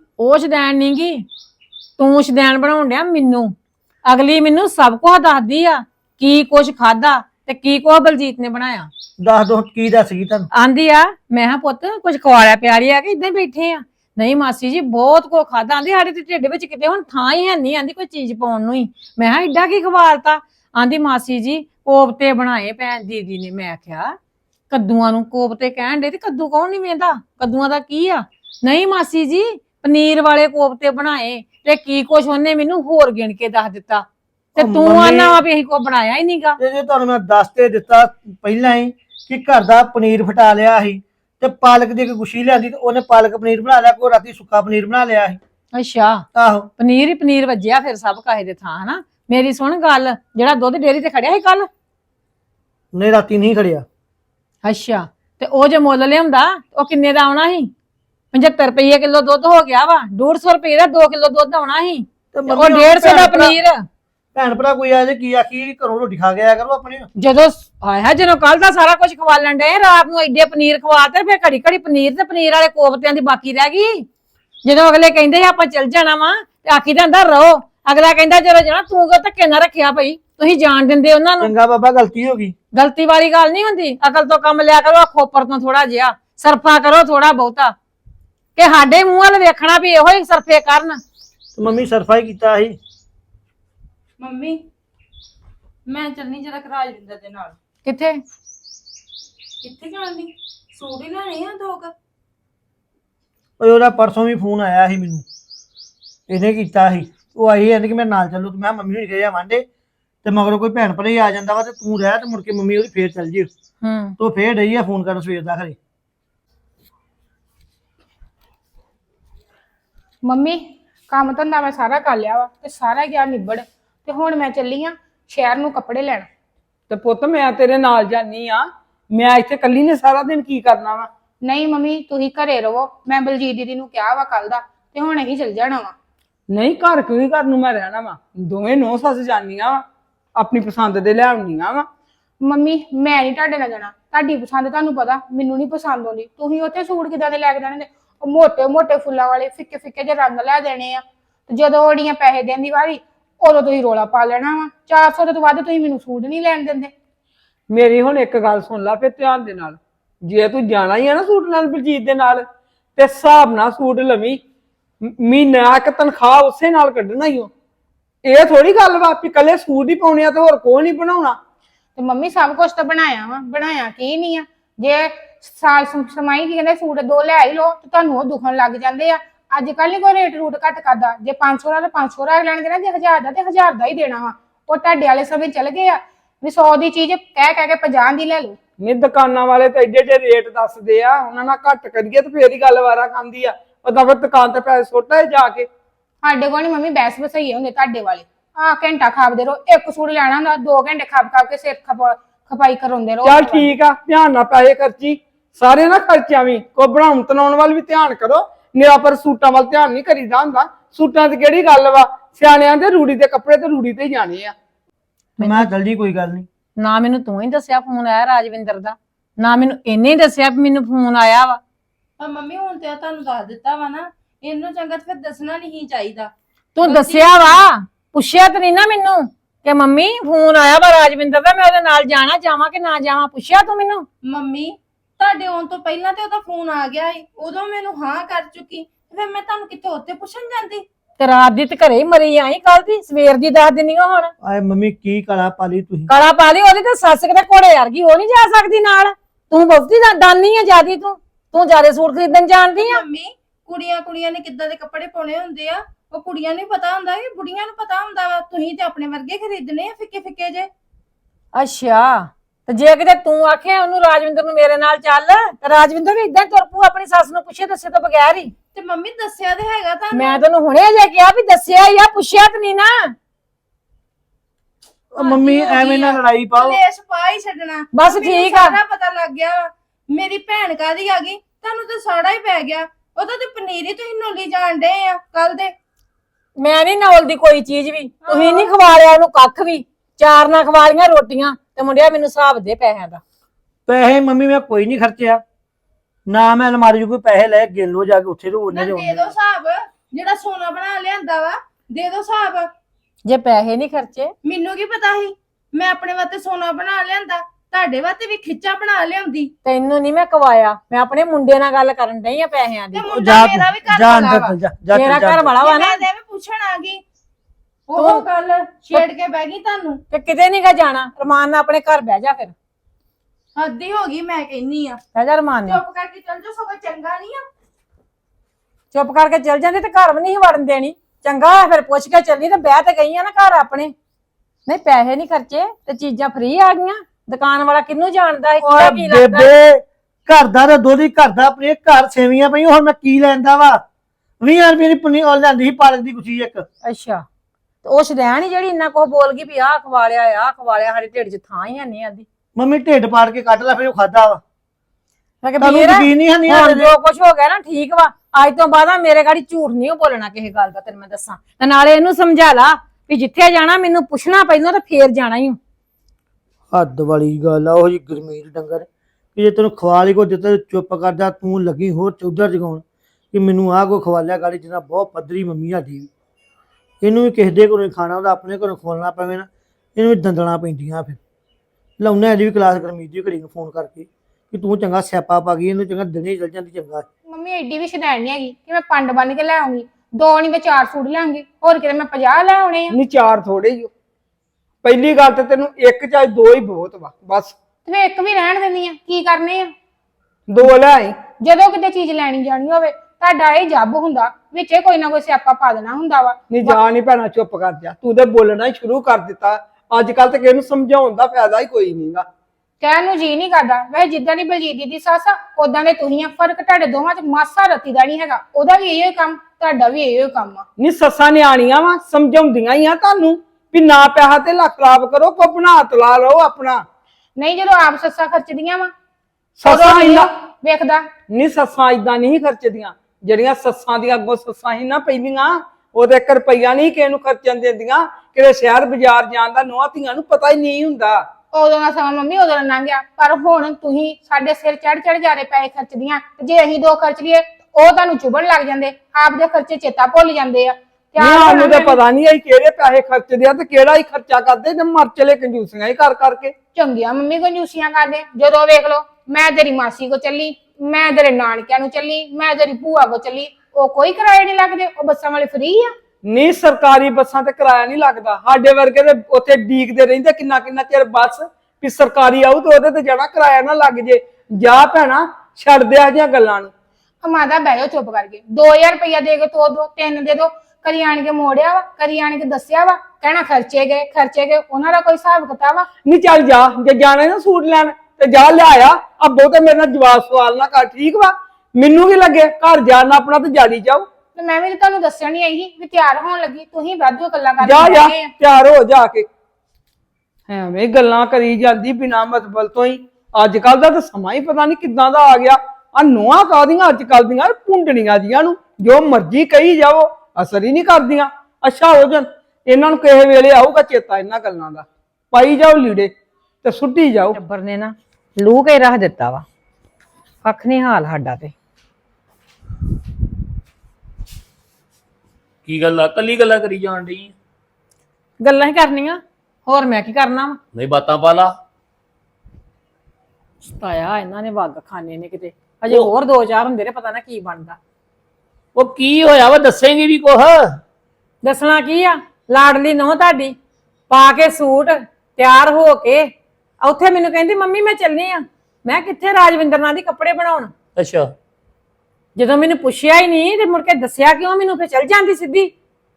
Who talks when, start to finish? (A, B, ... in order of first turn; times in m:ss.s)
0:00.2-0:01.3 A
0:02.0-0:03.6 A
0:04.1-0:08.9 A
0:09.2-0:10.5 B
0:10.5-0:24.2 A
0:24.7-0:36.6 A
0:34.6-0:35.4 B
0:36.6-0:45.4 B
0:45.7-0:46.3 A
0:46.3-0:46.7 B
0:46.8-0:51.7 A
0:52.9-0:53.8 B
0:54.6-0:57.7 A
0:58.3-1:03.8 A
1:02.3-1:03.6 B
1:04.3-1:07.1 B
1:07.2-1:14.1 A
1:14.6-1:21.5 A
1:21.4-1:22.6 B
1:22.7-1:27.8 A
1:28.6-1:31.0 A
1:31.6-1:32.8 B
1:34.2-1:34.6 C
1:35.9-1:37.6 C
1:37.8-1:38.2 A
1:39.6-1:41.9 C
1:43.6-1:45.2 B
1:46.3-1:49.7 B
1:50.2-1:53.5 B
1:53.8-1:54.2 A
1:54.2-1:55.8 B
2:00.2-2:06.3 D
2:06.9-2:11.1 E
2:11.4-2:15.9 D
2:16.5-2:21.9 E
2:22.4-2:36.9 D
2:37.7-2:42.4 E
2:43.0-2:44.4 E
2:45.0-2:47.5 E
2:48.2-2:51.4 E
2:52.0-3:08.6 D
3:08.8-3:15.7 E
3:16.2-3:23.7 D
3:23.2-3:34.6 E
3:35.4-3:35.7 A
3:35.4-3:36.5 B
3:36.8-3:41.6 A
3:42.2-3:46.3 C
3:46.8-3:54.1 A
3:46.8-3:47.5 C
3:54.2-4:00.9 C
4:01.2-4:04.3 A
4:04.4-4:06.1 B
4:06.1-4:13.0 A
4:12.8-4:20.7 C
4:21.5-4:28.5 A
4:28.7-4:30.4 C
4:30.1-4:33.1 A
4:35.1-4:36.8 B
4:35.2-4:45.8 C
4:37.9-4:38.8 A
4:46.6-4:53.2 A
4:48.3-4:48.7 C
4:53.9-4:55.4 B
4:56.3-4:59.3 B
4:58.7-5:02.7 C
5:03.2-5:04.3 A
5:04.4-5:09.5 C
5:09.6-5:13.1 A
5:12.9-5:14.6 C
5:13.0-5:15.5 B
5:14.9-5:16.0 A
5:15.6-5:17.0 C
5:17.9-5:20.0 C
5:18.0-5:18.2 A
5:20.1-5:22.5 A
5:23.6-5:25.0 C
5:25.1-5:25.8 A
5:25.6-5:27.5 C
5:28.9-5:33.9 A
5:34.7-5:39.5 A
5:38.6-5:43.8 B
5:44.4-5:46.6 B
5:46.8-5:47.2 A
5:47.8-5:52.3 A
5:52.6-5:54.4 B
5:55.4-6:05.6 A
5:55.6-5:56.9 B
6:06.7-6:16.1 B
6:17.0-6:21.2 B
6:22.0-6:27.1 B
6:27.3-6:32.9 D
6:32.9-6:33.9 E
6:34.8-6:37.6 E
6:37.9-6:39.7 D
6:40.5-6:41.2 E
6:41.4-6:46.8 D
6:46.5-6:52.3 E
6:52.8-7:00.6 D
7:00.8-7:06.8 E
7:07.4-7:08.9 D
7:09.6-7:10.3 E
7:09.6-7:11.0 D
7:11.3-7:21.2 E
7:21.5-7:32.0 D
7:31.2-7:36.5 E
7:36.7-7:45.9 D
7:46.2-7:56.7 E
7:57.2-8:05.9 D
8:06.0-8:14.1 E
8:14.4-8:18.3 D
8:17.6-8:19.3 E
8:20.5-8:36.1 E
8:36.6-8:37.4 E
8:37.3-8:39.4 A
8:40.4-8:41.5 A
8:45.6-8:47.3 F
8:48.4-8:50.6 A
8:50.7-8:51.5 F
8:53.6-8:57.8 A
8:58.8-9:00.6 F
9:01.4-9:03.6 A
9:04.1-9:06.3 A
9:06.8-9:10.7 A
9:11.0-9:11.3 F
9:12.4-9:15.7 A